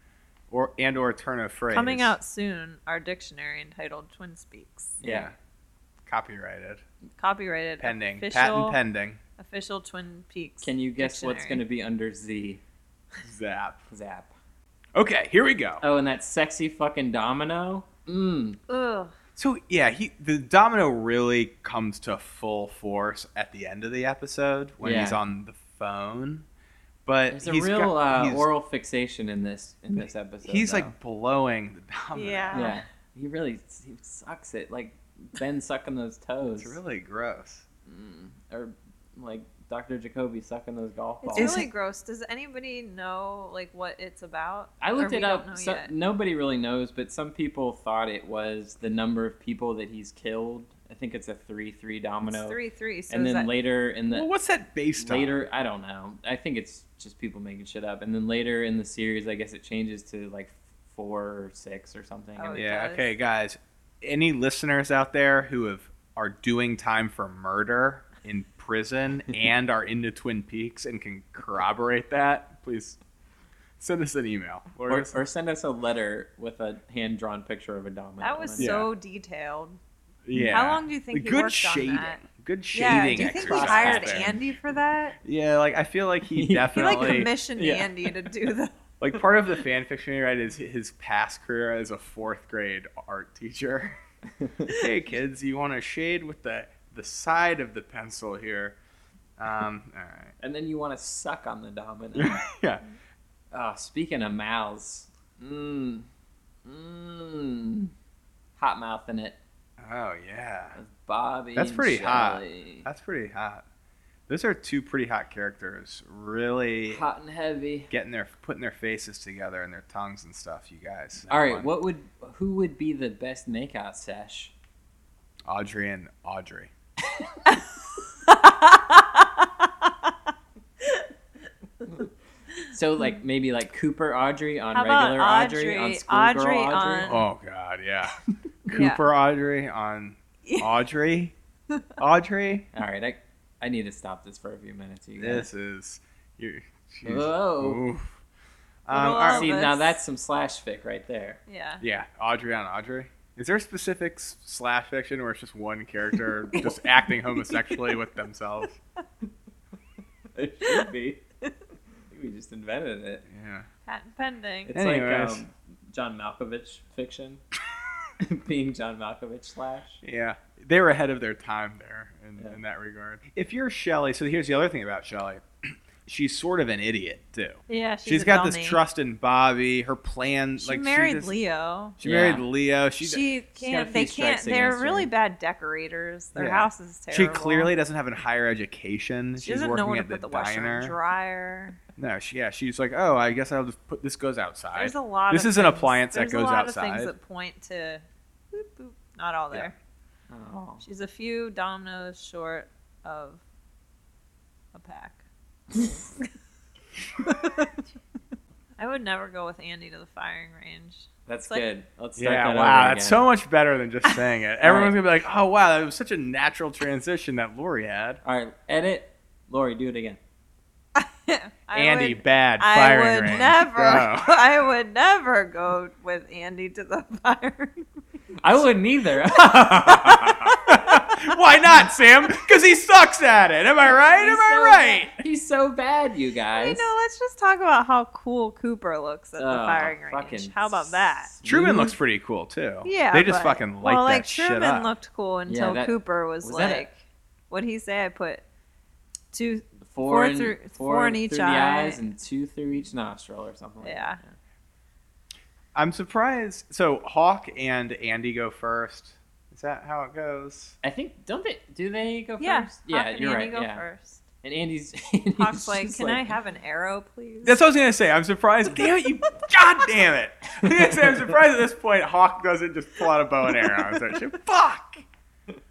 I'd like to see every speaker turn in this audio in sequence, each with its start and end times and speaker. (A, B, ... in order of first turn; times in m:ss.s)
0:00.5-0:02.2 A
0:01.7-0:05.0 B
0:05.0-0:05.3 C
0:05.0-0:05.3 A
0:06.0-0:06.8 A
0:07.2-0:08.8 B
0:07.8-0:09.2 A
0:09.4-0:11.6 B
0:10.6-0:12.6 C
0:13.2-0:13.8 A
0:13.9-0:14.3 C
0:14.9-0:15.8 A
0:15.8-0:18.6 C
0:18.7-0:19.1 B
0:19.4-0:26.4 A
0:24.8-0:25.2 C
0:27.0-0:28.5 A
0:27.3-0:30.9 C
0:30.4-0:32.7 A
0:32.1-0:32.8 B
0:32.5-0:36.8 C
0:36.6-0:37.6 A
0:37.8-0:41.6 C
0:41.2-0:45.9 B
0:41.4-0:41.6 A
0:44.8-0:52.6 C
0:52.2-0:53.5 B
0:53.1-0:54.3 C
0:54.1-0:55.3 A
0:55.0-1:02.6 C
1:02.4-1:03.1 B
1:02.5-1:13.0 A
1:13.8-1:15.2 A
1:14.8-1:18.8 C
1:18.2-1:19.8 B
1:18.6-1:18.9 A
1:20.2-1:24.4 A
1:20.5-1:22.2 B
1:22.7-1:25.2 B
1:22.8-1:24.3 C
1:25.2-1:27.3 A
1:26.3-1:28.3 C
1:26.7-1:28.7 B
1:29.0-1:34.0 A
1:34.4-1:34.7 C
1:34.7-1:38.8 A
1:39.4-1:40.3 A
1:40.4-1:42.4 C
1:42.2-1:42.8 A
1:43.5-1:46.1 C
1:46.6-1:47.9 C
1:48.6-1:49.4 C
1:49.8-1:50.8 A
1:50.8-1:52.9 C
1:51.5-1:53.6 A
1:54.3-1:57.0 A
1:56.9-1:57.9 C
1:57.9-2:01.7 A
2:01.3-2:04.5 C
2:05.5-2:06.7 A
2:08.2-2:09.9 B
2:10.8-2:11.0 B
2:12.7-2:17.2 C
2:14.7-2:17.2 B
2:17.0-2:18.2 A
2:18.7-2:21.3 A
2:18.7-2:19.0 B
2:22.0-2:22.7 A
2:22.7-2:25.5 C
2:25.2-2:28.2 A
2:27.0-2:27.8 C
2:28.9-2:29.6 A
2:28.9-2:30.0 B
2:29.3-2:31.4 C
2:31.5-2:31.8 B
2:31.8-2:38.8 A
2:37.4-2:38.0 B
2:40.3-2:41.2 C
2:42.1-2:43.2 C
2:43.3-2:43.6 A
2:43.8-2:44.7 B
2:44.7-2:47.4 C
2:44.7-2:45.4 A
2:48.2-2:50.0 C
2:50.0-3:01.3 A
2:57.7-2:58.8 B
3:00.6-3:02.0 B
3:02.0-3:03.2 A
3:02.0-3:02.4 C
3:03.0-3:07.7 B
3:03.6-3:05.1 C
3:06.4-3:10.9 A
3:09.4-3:11.8 B
3:12.0-3:17.1 A
3:14.7-3:19.7 B
3:20.3-3:20.8 C
3:20.8-3:23.4 B
3:24.7-3:25.2 B
3:27.2-3:27.8 B
3:28.8-3:31.6 B
3:31.3-3:33.2 C
3:32.2-3:38.2 A
3:34.6-3:35.0 C
3:38.2-3:40.2 C
3:41.0-3:47.8 B
3:41.7-3:44.4 A
3:48.4-3:50.6 C
3:49.7-3:51.4 B
3:50.7-3:55.1 A
3:54.2-3:56.9 C
3:54.2-3:55.0 B
3:56.5-4:01.3 B
3:59.4-4:01.9 C
4:01.4-4:04.9 A
4:02.8-4:07.0 B
4:05.5-4:06.8 C
4:07.5-4:08.4 B
4:09.3-4:12.0 B
4:09.8-4:14.4 C
4:13.8-4:14.2 B
4:15.7-4:20.8 A
4:20.8-4:23.8 C
4:22.4-4:24.2 B
4:24.4-4:26.3 C
4:25.4-4:27.6 B
4:27.4-4:35.0 A
4:30.6-4:31.4 C